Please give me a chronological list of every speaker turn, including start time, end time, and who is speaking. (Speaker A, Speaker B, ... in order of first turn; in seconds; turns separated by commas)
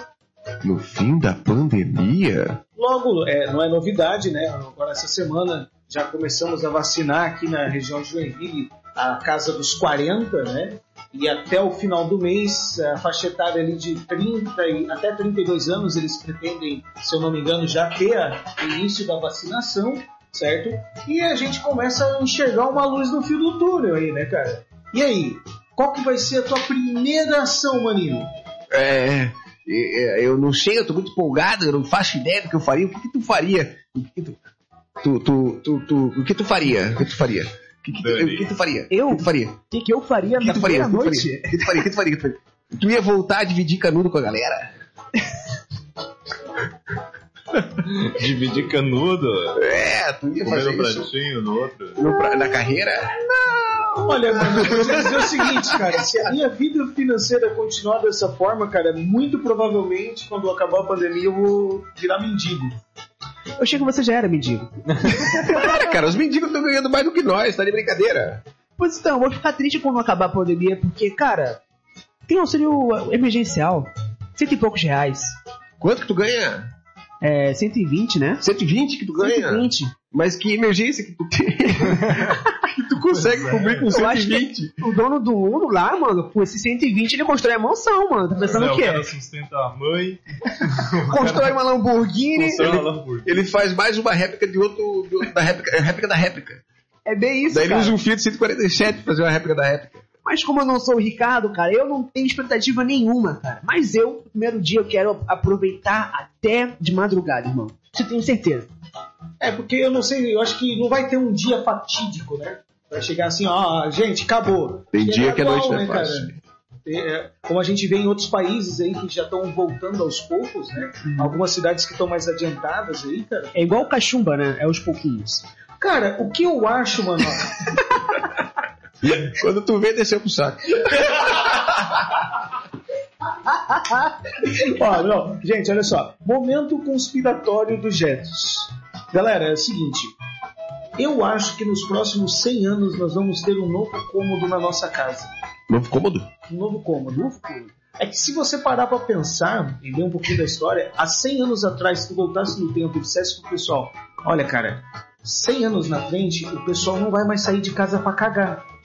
Speaker A: 0.6-2.6, Speaker B: 2.8-28.3, Speaker A: 28.7-34.4, Speaker A: 35.0-39.6, Speaker C: 38.0-38.5, Speaker D: 38.9-41.8, Speaker A: 40.4-44.7, Speaker C: 47.9-49.6, Speaker A: 49.5-51.1, Speaker C: 50.4-52.0, Speaker A: 52.0-56.0, Speaker B: 54.0-62.8, Speaker D: 63.6-65.8, Speaker A: 65.3-68.4, Speaker D: 68.8-71.6, Speaker D: 72.3-75.3, Speaker A: 75.8-76.7, Speaker D: 77.2-78.4, Speaker A: 78.4-84.8, Speaker D: 79.2-79.9, Speaker C: 83.0-83.9, Speaker D: 83.9-89.1, Speaker C: 88.5-91.5, Speaker D: 91.1-92.7, Speaker C: 92.3-93.5, Speaker A: 92.6-96.6, Speaker D: 97.1-98.0, Speaker A: 97.5-100.0, Speaker D: 100.2-108.7, Speaker B: 109.4-116.3, Speaker A: 114.9-116.4, Speaker B: 116.8-123.6, Speaker D: 123.5-125.4, Speaker B: 125.8-127.7, Speaker A: 129.0-132.2, Speaker B: 134.4-140.1, Speaker B: 141.0-145.3, Speaker A: 145.7-146.3, Speaker B: 146.5-158.6, Speaker D: 147.2-147.6